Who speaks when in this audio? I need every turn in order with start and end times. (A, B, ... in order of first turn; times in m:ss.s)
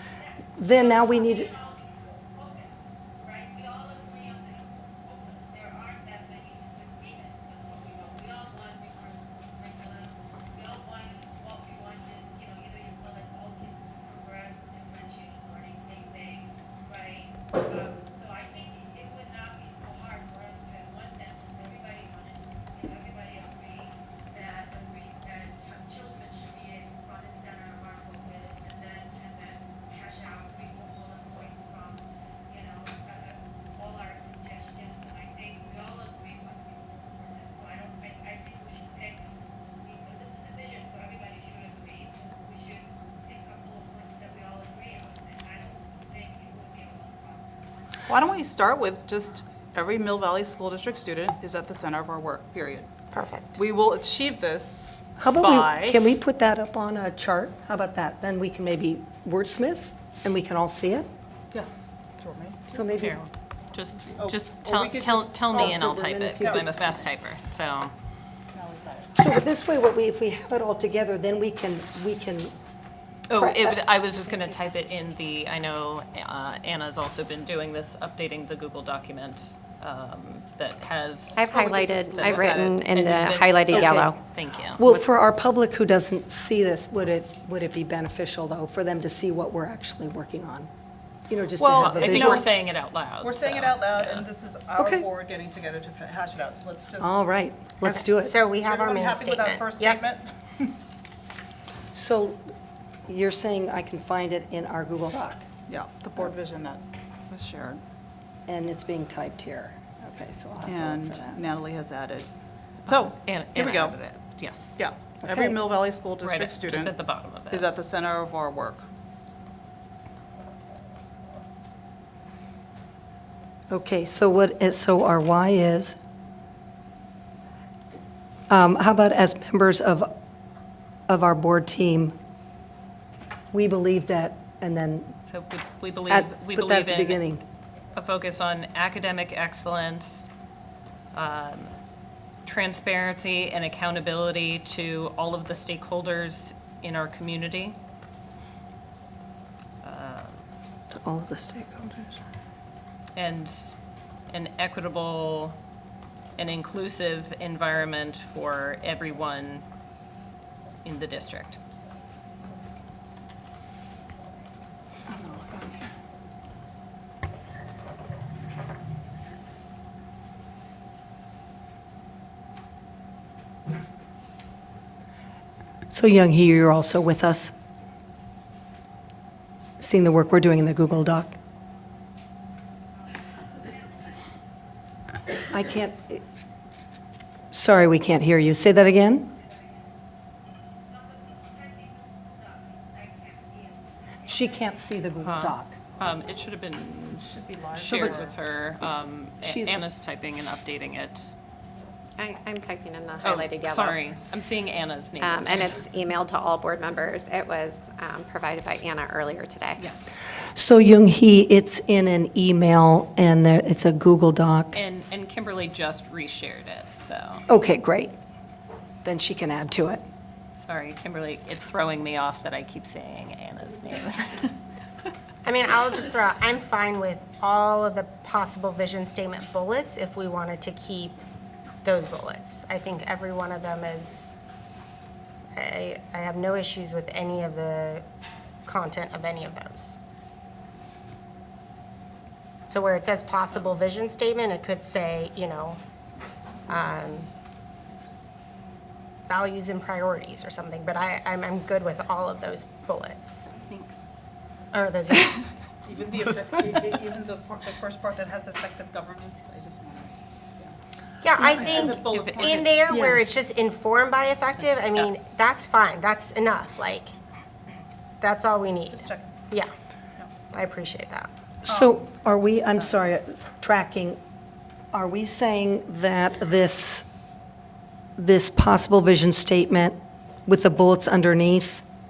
0:00.2-0:47.9 A
0:00.6-0:01.5 B
0:48.1-0:52.9 C
0:53.1-0:53.5 D
0:53.5-0:56.0 C
0:55.2-1:01.1 B
1:01.5-1:02.8 C
1:02.7-1:03.3 B
1:03.0-1:07.9 E
1:04.2-1:06.6 C
1:05.5-1:06.7 B
1:08.5-1:09.1 C
1:09.2-1:12.5 B
1:13.3-1:21.4 E
1:13.3-1:13.8 B
1:21.3-1:24.2 F
1:21.4-1:22.9 C
1:22.9-1:24.8 E
1:23.7-1:24.0 C
1:23.8-1:24.1 B
1:24.8-1:30.7 B
1:31.3-1:32.4 B
1:31.6-1:32.5 C
1:31.7-1:34.3 E
1:33.2-1:37.2 C
1:34.8-1:35.1 B
1:37.0-1:38.4 B
1:37.8-1:40.0 D
1:38.6-1:40.7 C
1:41.9-1:42.4 B
1:43.1-1:45.5 B
1:45.7-1:47.8 C
1:48.5-1:51.4 B
1:50.6-1:52.3 C
1:52.8-1:54.0 C
1:53.2-1:54.9 E
1:54.8-1:57.0 C
1:56.2-1:57.7 E
1:57.5-1:58.8 C
2:03.7-2:06.0 B
2:08.5-2:10.1 B
2:11.1-2:12.1 B
2:13.5-2:15.1 B
2:15.3-2:17.2 E
2:16.1-2:17.4 B
2:17.9-2:20.3 E
2:21.1-2:21.7 E
2:22.4-2:27.8 E
2:29.8-2:30.4 E
2:30.9-2:32.2 B
2:33.1-2:33.7 E
2:34.3-2:35.6 E
2:36.4-2:39.6 E
2:40.8-2:41.6 E
2:45.1-2:45.9 C
2:55.9-2:57.5 B
2:59.8-3:01.4 B
3:03.0-3:04.3 A
3:05.5-3:06.2 B
3:07.5-3:09.3 B
3:09.3-3:09.9 A
3:10.8-3:15.0 A
3:14.3-3:15.8 B
3:15.2-3:21.3 E
3:17.1-3:18.3 C
3:17.8-3:18.3 B
3:19.4-3:19.8 B
3:22.2-3:24.0 F
3:23.2-3:25.8 E
3:25.2-3:29.8 F
3:29.8-3:30.2 E
3:30.5-3:34.8 B
3:34.7-3:37.4 E
3:37.5-3:38.1 B
3:39.0-3:40.0 B
3:40.6-3:44.6 E
3:45.4-3:51.2 D
3:51.8-3:54.3 D
3:55.5-3:58.0 D
3:58.6-4:00.0 D
4:02.7-4:05.8 D
4:06.7-4:07.3 D
4:09.3-4:13.5 D
4:13.6-4:14.1 E
4:14.7-4:15.4 D
4:15.8-4:20.7 C
4:21.2-4:27.1 D
4:21.4-4:23.1 C
4:21.5-4:22.6 E
4:22.9-4:23.2 B
4:28.2-4:29.7 D
4:28.9-4:29.4 C
4:30.5-4:31.3 D
4:31.6-4:34.2 B
4:31.7-4:32.0 C
4:34.9-4:37.0 B
4:38.2-4:41.8 B